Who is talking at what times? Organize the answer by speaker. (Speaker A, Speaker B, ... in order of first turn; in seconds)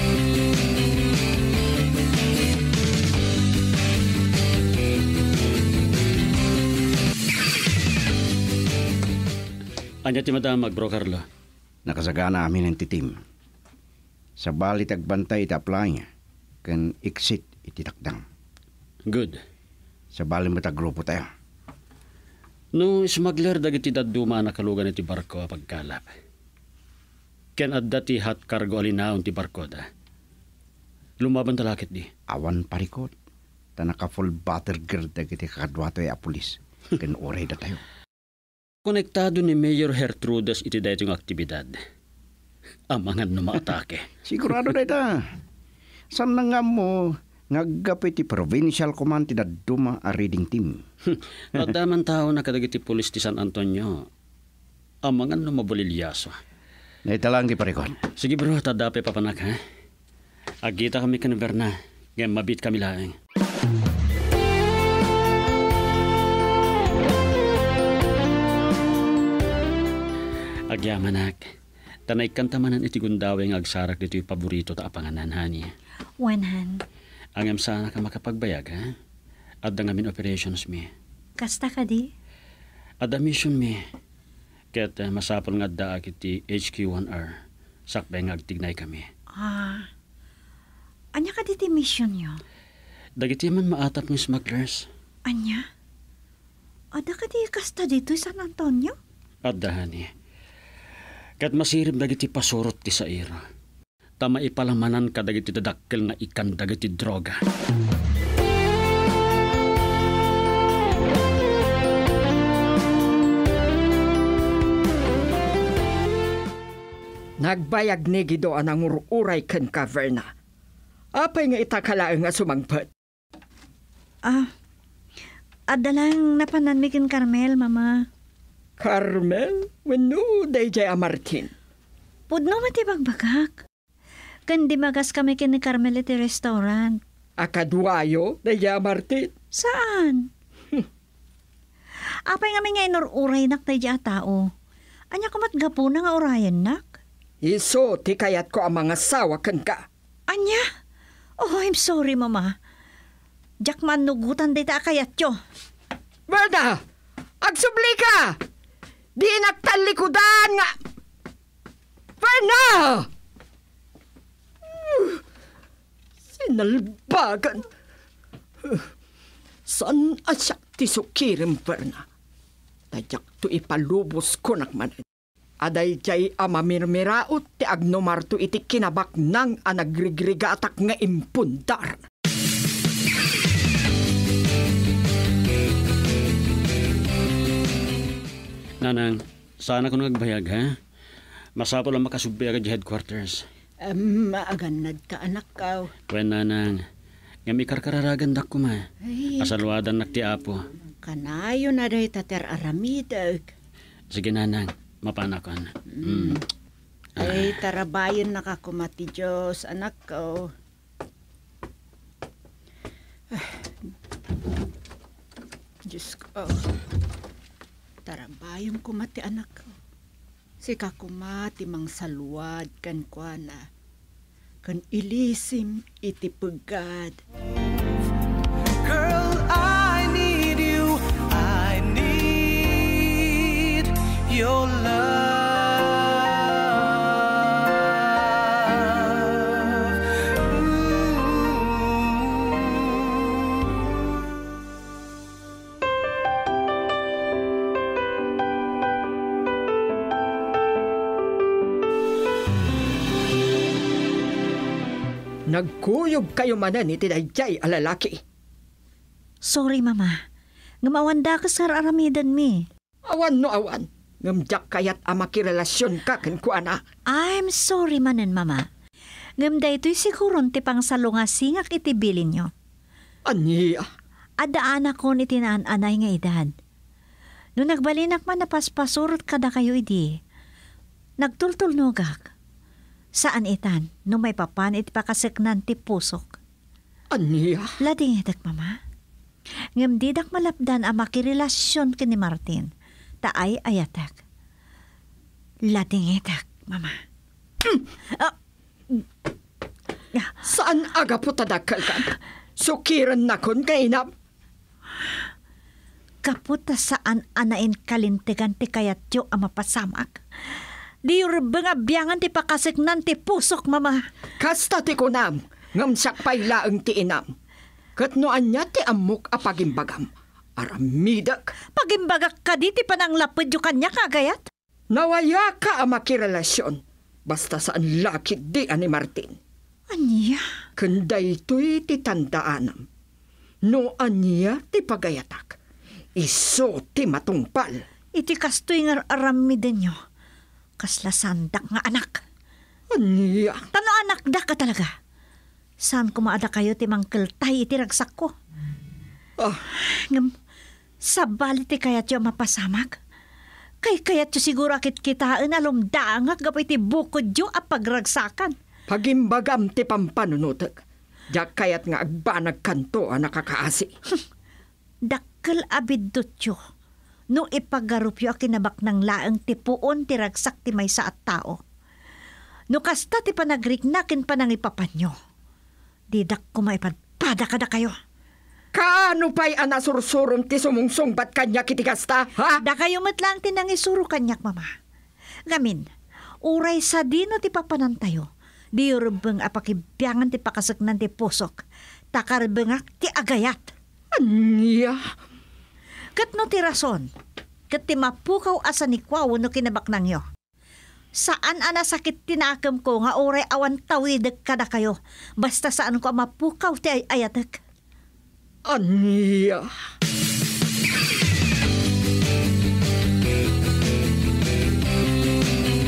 Speaker A: 10.1-11.2, 19.1-19.4, 22.8-26.1, 27.6-29.8, 31.2-32.1, 38.9-41.8, 42.9-44.1, 51.1-54.1, 55.0-56.4, 58.2-59.6, 60.6-63.1, 70.7-71.5, 72.1-75.7, 77.4-78.9, 79.7-80.9, 83.0-83.8, 84.7-87.3, 87.9-89.1, 93.2-94.9, 99.5-100.1, 101.4-103.4, 104.2-107.4, 188.8-190.8, 191.6-193.4, 196.1-196.8, 197.5-198.9, 199.4-200.7, 204.1-206.4, 207.2-207.5
Speaker B: 11.9-13.2, 14.4-16.1, 16.6-18.2, 20.1-21.3, 32.3-33.1, 33.8-37.8, 44.2-45.2, 46.1-50.8, 57.1-58.0
Speaker C: 76.2-76.8, 81.4-82.1, 89.4-89.9, 91.2-92.4, 95.3-95.7, 96.9-99.0, 125.7-128.1, 132.3-133.6, 134.5-137.0, 139.5-140.3, 142.3-144.5, 145.1-147.0, 150.3-150.6, 151.4-152.6, 153.6-155.4, 259.4-260.2, 260.8-262.7, 267.1-268.7, 269.4-272.5, 274.4-276.5, 277.6-280.2, 281.2-282.3, 283.2-286.3, 287.8-288.8, 289.8-292.7, 293.2-294.2, 295.7-297.0, 306.2-310.2, 311.1-314.0, 321.8-324.4, 329.9-330.4, 338.2-340.0, 340.8-342.2, 343.7-344.9, 345.8-348.3, 349.8-350.3, 351.1-353.0, 353.8-358.5, 365.1-366.6, 367.3-371.6, 372.7-375.2, 376.1-377.9, 382.6-384.7, 385.5-385.9, 386.4-391.6, 392.1-393.7, 396.2-397.1, 397.7-400.2, 401.2-407.6
Speaker D: 117.4-120.3, 121.2-122.9, 128.8-131.5, 137.4-139.3, 147.4-149.9, 156.3-156.8, 157.4-158.4, 159.2-160.8, 162.2-163.1, 164.7-165.2, 166.3-167.6, 169.7-172.1, 172.9-175.0, 175.6-182.0, 255.5-258.2, 263.1-266.8, 273.3-273.9, 287.1-287.7, 300.4-304.1, 314.4-317.3, 318.0-321.5, 324.9-329.4, 330.8-332.9, 333.7-335.6, 336.2-337.8, 342.9-343.6, 358.9-363.9, 378.7-382.6, 394.1-395.1, 408.7-409.7
Speaker E: 193.8-195.9, 199.0-199.5, 201.0-203.5, 206.0-206.4, 207.2-210.5, 213.3-213.9, 215.9-216.7, 218.1-219.8, 220.6-223.7, 224.6-227.2
Speaker F: 228.8-240.0